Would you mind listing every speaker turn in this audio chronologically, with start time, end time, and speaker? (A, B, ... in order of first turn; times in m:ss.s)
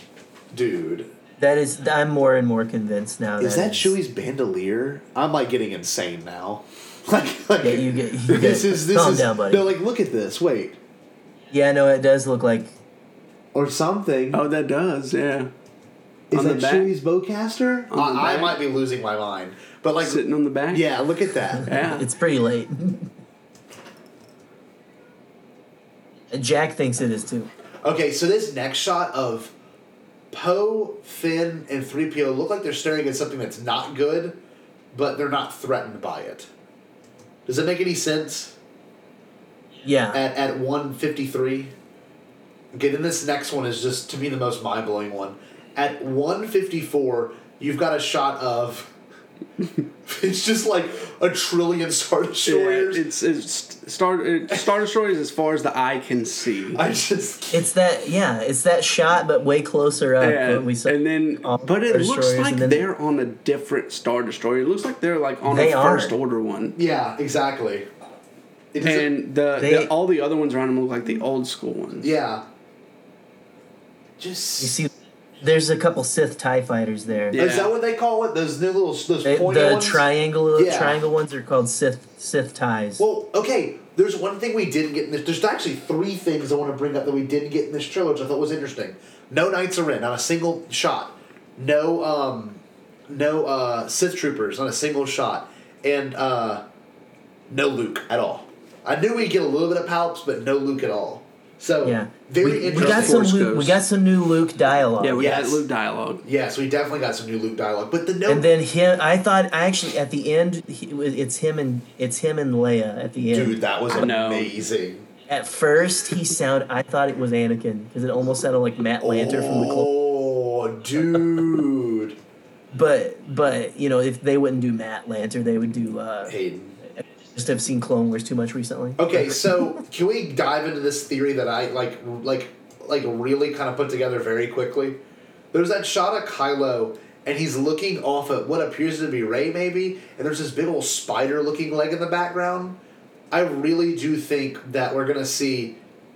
0:00.5-0:01.1 A
0:01.4-0:04.0 B
0:03.4-0:10.8 A
0:07.6-0:09.7 B
0:11.5-0:12.7 B
0:13.5-0:14.4 A
0:14.3-0:15.5 C
0:16.3-0:21.7 A
0:16.3-0:16.9 C
0:17.9-0:18.6 C
0:20.0-0:20.8 C
0:21.6-0:22.1 C
0:21.8-0:23.1 B
0:26.3-0:27.5 B
0:27.8-0:29.5 A
0:30.3-0:34.4 A
0:34.9-0:36.5 A
0:37.4-0:38.6 A
0:39.8-0:40.2 B
0:40.1-0:41.7 A
0:42.7-0:48.9 A
0:50.0-0:53.0 A
0:52.4-0:56.8 C
0:56.7-0:57.7 A
0:57.5-1:02.8 B
1:00.2-1:06.8 C
1:05.4-1:06.1 B
1:06.7-1:07.9 A
1:08.7-1:09.1 A
1:08.8-1:12.1 C
1:09.6-1:09.9 B
1:12.0-1:12.4 A
1:14.2-1:14.8 A
1:14.6-1:14.9 B
1:15.4-1:17.4 B
1:17.3-1:17.7 C
1:17.3-1:21.0 A
1:19.2-1:23.0 B
1:23.0-1:36.6 A
1:37.5-1:43.3 A
1:41.8-1:45.3 B
1:42.7-1:43.8 C
1:45.0-1:46.2 C
1:45.2-1:45.6 A
1:46.2-1:48.5 A
1:48.3-1:54.1 B
1:53.3-1:55.1 A
1:53.9-1:54.6 C
1:55.3-1:59.9 B
1:59.0-2:02.2 A
2:02.7-2:06.4 B
2:06.3-2:06.8 A
2:07.0-2:09.6 B
2:09.0-2:15.0 A
2:15.5-2:22.8 A
2:23.3-2:25.8 A